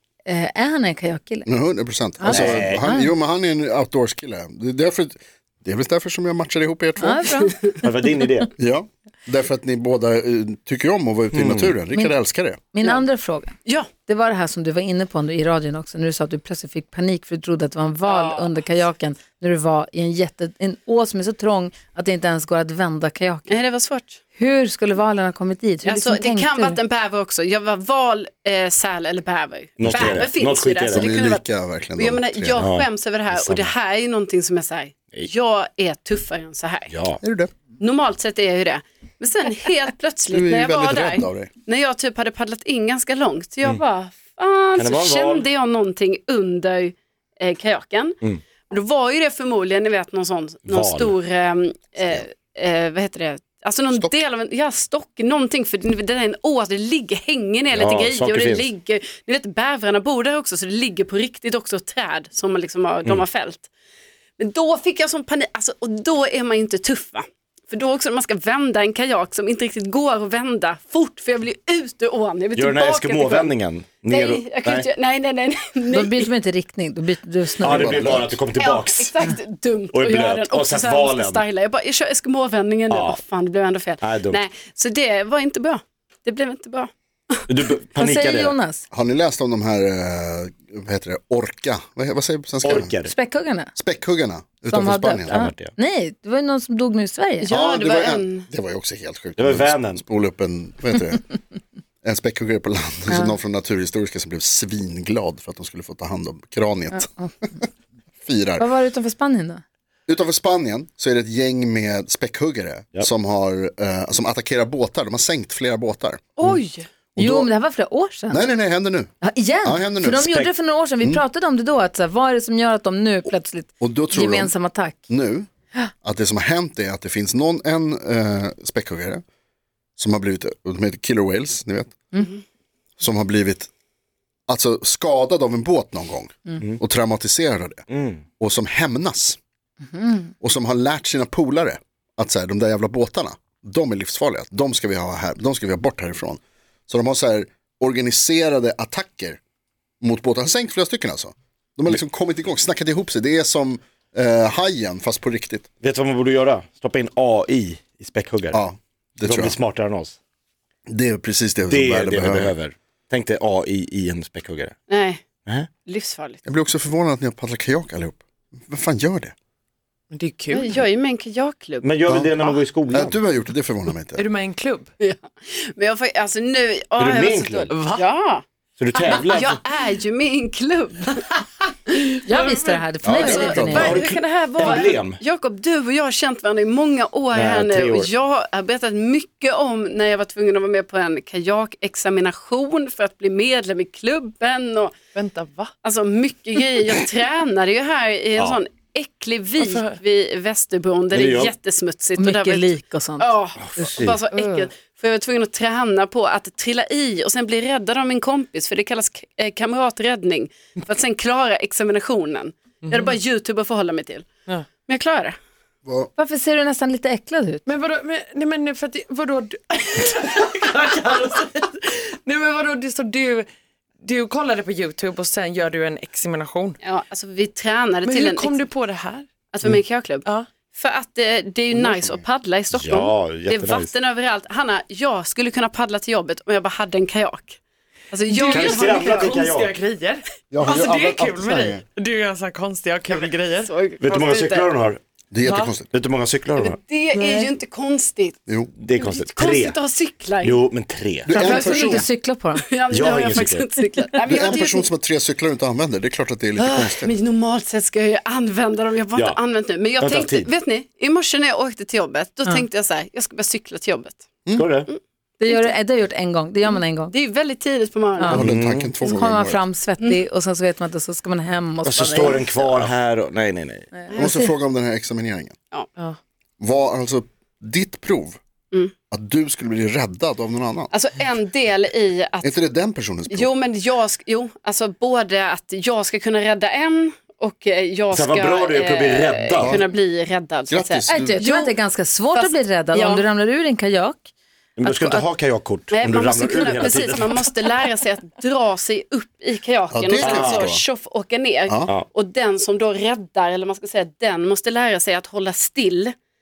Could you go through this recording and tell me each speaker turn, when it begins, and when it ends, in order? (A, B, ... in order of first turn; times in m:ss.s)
0:00.2-0:01.5 A
0:01.4-0:07.2 B
0:02.2-0:03.1 A
0:02.2-0:03.0 C
0:07.0-0:07.5 A
0:07.8-0:08.5 C
0:08.6-0:12.6 B
0:11.3-0:11.7 C
0:11.9-0:12.2 A
0:12.7-0:23.6 A
0:18.0-0:18.6 D
0:23.5-0:24.2 D
0:24.4-0:26.8 A
0:25.8-0:31.4 D
0:29.8-0:31.1 C
0:29.8-0:30.2 B
0:30.9-0:32.7 B
0:32.0-0:37.0 D
0:32.6-0:33.7 C
0:36.9-0:37.2 C
0:37.2-0:37.5 B
0:37.8-1:03.7 D
0:40.3-0:41.5 B
0:44.8-0:45.4 C
0:50.7-0:51.1 C
0:57.7-0:58.7 C
1:04.4-1:16.3 D
1:12.6-1:14.9 C
1:15.9-1:18.2 A
1:17.6-1:19.2 C
1:17.6-1:18.4 B
1:18.5-1:27.4 D
1:19.9-1:21.4 C
1:22.9-1:23.2 C
1:24.0-1:24.4 C
1:27.5-1:28.6 C
1:28.0-1:28.8 A
1:28.9-1:32.9 B
1:32.6-1:33.1 C
1:33.0-1:33.7 A
1:33.8-1:35.4 B
1:34.7-1:37.5 A
1:35.2-1:35.7 C
1:37.4-1:38.5 D
1:37.5-1:41.3 B
1:39.4-1:40.0 C
1:42.0-1:47.6 B
1:43.1-1:43.4 A
1:46.9-1:47.4 A
1:48.2-1:48.7 B
1:48.6-1:49.6 A
1:50.1-1:56.6 B
1:57.1-1:57.5 B
1:57.2-1:58.4 A
1:58.3-1:59.1 B
1:59.2-2:05.0 A
1:59.6-2:00.3 B
2:00.1-2:00.5 C
2:03.8-2:04.5 B
2:05.1-2:05.5 B
2:06.0-2:09.2 B
2:10.0-2:12.0 B
2:13.0-2:13.7 B
2:14.5-2:17.9 B
2:17.9-2:18.2 C
2:18.4-2:19.4 B
2:19.9-2:20.3 A
2:20.4-2:29.4 B
2:30.0-2:35.7 B
2:35.8-2:38.6 C
2:38.5-2:39.6 B
2:39.2-2:40.2 C
2:40.9-2:42.5 B
2:41.7-2:44.8 C
2:44.9-2:45.3 D
2:45.8-2:46.4 D
2:46.4-2:49.3 B
2:50.1-2:50.7 E
2:50.5-2:52.0 D
2:51.8-2:53.2 C
2:52.1-2:52.3 B
2:52.9-2:54.2 B
2:54.1-2:54.9 E
2:55.0-2:58.4 D
2:57.0-2:57.7 C
2:57.7-2:58.1 E
2:58.8-2:59.6 C
2:58.9-3:01.4 D
3:02.2-3:04.0 A
3:02.3-3:02.5 D
3:02.4-3:02.8 E
3:03.0-3:04.0 B
3:03.1-3:15.0 D
3:03.7-3:05.2 C
3:07.3-3:08.1 C
3:15.1-3:15.7 E
3:15.8-3:34.3 D
3:19.6-3:19.9 E
3:21.1-3:21.5 C
3:22.2-3:23.9 A
3:23.6-3:24.2 C
3:24.3-3:24.6 E
3:32.8-3:33.1 E
3:34.8-3:35.4 D
3:35.8-3:36.1 B
3:36.2-3:37.6 A
3:37.6-3:43.5 E
3:44.0-3:46.8 E
3:46.8-3:48.6 D
3:48.0-3:49.3 E
3:49.5-3:57.6 D
3:51.7-3:52.2 B
3:52.7-3:53.9 C
3:58.1-3:59.1 D
3:58.3-4:04.7 E
3:58.5-3:59.7 C
4:00.5-4:01.8 B
4:03.2-4:04.0 D
4:04.0-4:05.0 C
4:05.3-4:05.9 B
4:05.4-4:05.8 E
4:05.9-4:06.8 C
4:06.6-4:08.4 D
4:07.1-4:07.5 E
4:08.8-4:09.8 C
4:09.0-4:10.6 D
4:10.4-4:11.5 C
4:11.2-4:12.1 B
4:11.3-4:14.9 D
4:11.3-4:12.6 A
4:12.9-4:13.6 C
4:14.2-4:17.1 B
4:16.6-4:24.2 D
4:20.0-4:20.5 C
4:24.6-4:24.9 C
4:24.9-4:25.7 D
4:25.4-4:27.1 A
4:27.1-4:28.4 D
4:28.2-4:28.4 A
4:28.3-4:29.6 B
4:28.3-4:28.9 C
4:29.0-4:32.4 A
4:31.8-4:33.9 C
4:32.2-4:32.9 D
4:34.0-4:34.5 A
4:34.1-4:34.4 D
4:34.1-4:35.5 B
4:36.6-4:38.4 B
4:39.1-4:40.9 B
4:40.9-4:42.5 D
4:42.4-4:43.5 B
4:43.3-4:51.8 D
4:48.1-4:49.8 C
4:49.6-4:49.8 B
4:50.7-4:51.4 B
4:51.1-4:54.3 A
4:52.3-4:53.2 D
4:54.8-4:57.5 C
4:54.8-4:55.2 A
4:55.9-5:06.1 D
4:59.9-5:00.8 B
5:00.1-5:00.7 C